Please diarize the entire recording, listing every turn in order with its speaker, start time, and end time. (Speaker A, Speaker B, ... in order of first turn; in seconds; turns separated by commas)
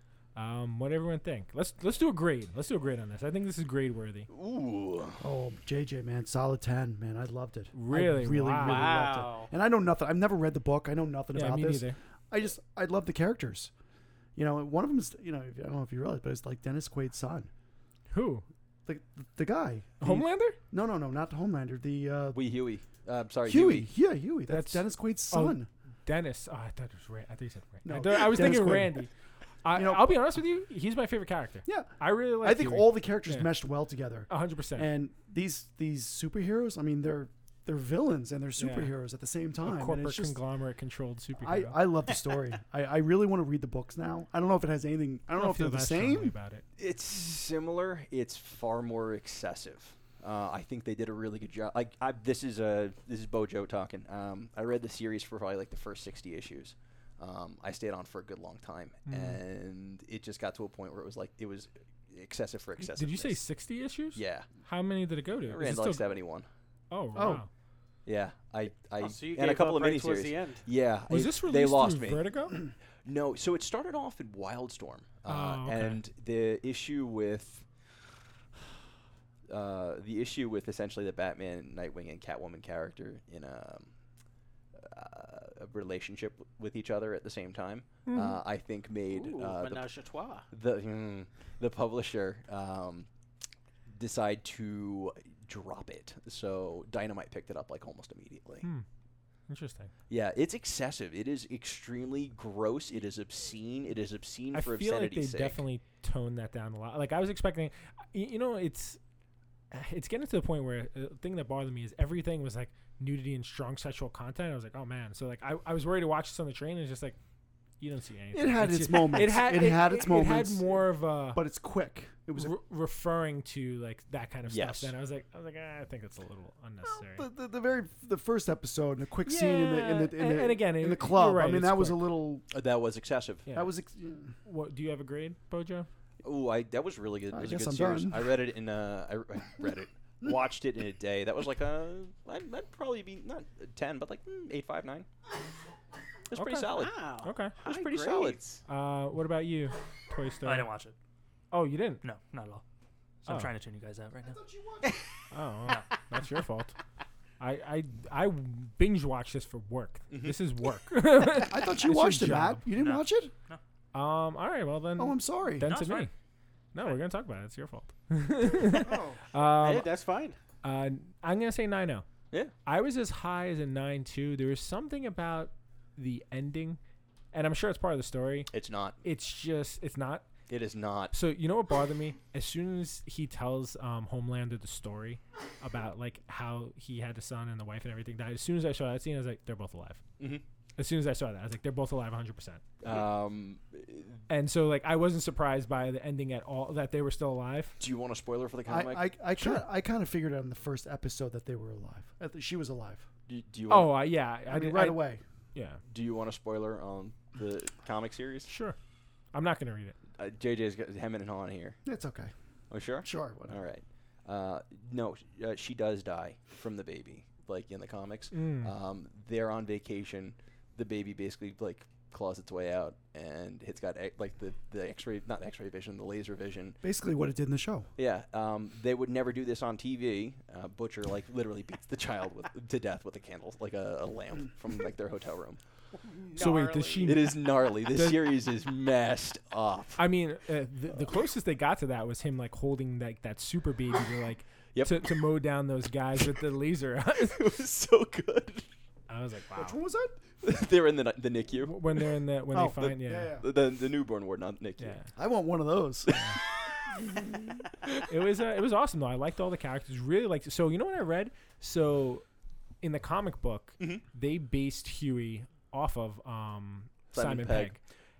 Speaker A: 0.3-4.3, Speaker B: 4.3-5.2, Speaker C: 5.2-13.7, Speaker A: 7.7-9.0, Speaker D: 8.6-9.5, Speaker A: 11.3-12.0, Speaker C: 14.4-17.5, Speaker A: 18.1-18.4, Speaker C: 18.9-22.5, Speaker A: 20.0-20.6, Speaker B: 22.3-23.9, Speaker C: 23.4-25.7, Speaker A: 24.5-29.1, Speaker C: 27.9-29.0, Speaker A: 29.6-33.5, Speaker C: 29.7-30.1, Speaker C: 31.6-40.4, Speaker A: 34.3-34.9, Speaker A: 38.6-39.0, Speaker A: 39.6-41.8, Speaker C: 41.4-46.4, Speaker A: 45.3-46.6, Speaker B: 46.8-63.4, Speaker A: 59.1-59.4, Speaker A: 62.9-66.0, Speaker B: 64.1-64.5, Speaker B: 65.4-66.5, Speaker A: 66.9-67.5, Speaker C: 67.2-67.4, Speaker B: 68.0-72.3, Speaker D: 69.0-70.7, Speaker A: 71.1-72.6, Speaker B: 73.0-77.7, Speaker A: 75.3-76.0, Speaker B: 79.5-83.9, Speaker B: 84.8-89.9, Speaker A: 88.1-88.4, Speaker D: 89.1-90.5, Speaker B: 90.5-93.1, Speaker B: 93.9-98.7, Speaker A: 99.5-99.9, Speaker B: 100.1-105.6, Speaker A: 104.5-109.0, Speaker A: 109.7-117.2, Speaker A: 117.8-121.4, Speaker C: 118.3-122.6, Speaker A: 122.4-127.3, Speaker B: 124.5-124.9, Speaker C: 126.8-132.5, Speaker A: 129.2-132.1, Speaker B: 132.5-133.5, Speaker A: 133.5-133.7, Speaker C: 133.5-134.4, Speaker A: 134.4-135.9, Speaker B: 136.2-145.1, Speaker C: 137.3-138.4, Speaker B: 146.3-147.0, Speaker A: 146.3-147.5, Speaker D: 146.7-148.6, Speaker B: 147.5-148.4, Speaker A: 148.7-150.7, Speaker E: 150.4-150.9, Speaker A: 151.5-152.0, Speaker E: 152.0-152.6, Speaker E: 153.2-154.4, Speaker A: 153.3-153.5, Speaker C: 154.2-155.0, Speaker A: 155.3-156.8, Speaker A: 157.4-162.6, Speaker B: 160.1-160.4, Speaker C: 161.4-163.3, Speaker E: 162.7-163.6, Speaker A: 163.9-166.1, Speaker C: 165.0-165.7, Speaker E: 165.6-166.1, Speaker A: 166.7-169.9, Speaker C: 168.7-169.2, Speaker D: 169.5-170.4, Speaker A: 170.6-172.1, Speaker A: 172.7-176.8, Speaker A: 177.3-178.5, Speaker B: 178.5-179.0, Speaker A: 179.0-180.3, Speaker B: 180.5-181.2, Speaker A: 181.1-190.0, Speaker A: 190.8-192.6, Speaker B: 192.8-194.2, Speaker A: 194.3-197.8, Speaker B: 197.8-199.2, Speaker C: 198.7-203.1, Speaker B: 203.3-204.1, Speaker A: 203.7-205.0, Speaker C: 204.5-205.2, Speaker A: 205.5-205.8, Speaker B: 205.8-208.5, Speaker A: 208.5-208.8, Speaker A: 209.3-210.0, Speaker B: 210.2-211.8, Speaker C: 211.8-212.3, Speaker B: 212.7-226.8, Speaker C: 213.0-213.6, Speaker A: 218.3-218.7, Speaker C: 226.8-227.9, Speaker B: 228.0-235.6, Speaker D: 235.9-237.2, Speaker A: 236.3-238.2, Speaker B: 237.0-240.1, Speaker A: 240.0-247.4, Speaker B: 244.7-245.2, Speaker B: 247.3-248.7, Speaker A: 249.1-249.8, Speaker C: 249.6-250.2, Speaker B: 250.4-252.2, Speaker A: 251.6-253.4, Speaker C: 252.5-253.5, Speaker B: 253.3-255.0, Speaker A: 254.8-255.1, Speaker C: 255.1-256.2, Speaker A: 256.1-256.4, Speaker B: 256.1-257.0, Speaker C: 257.0-257.4, Speaker A: 258.1-262.3, Speaker A: 262.8-267.8, Speaker B: 263.8-264.0, Speaker B: 267.1-267.8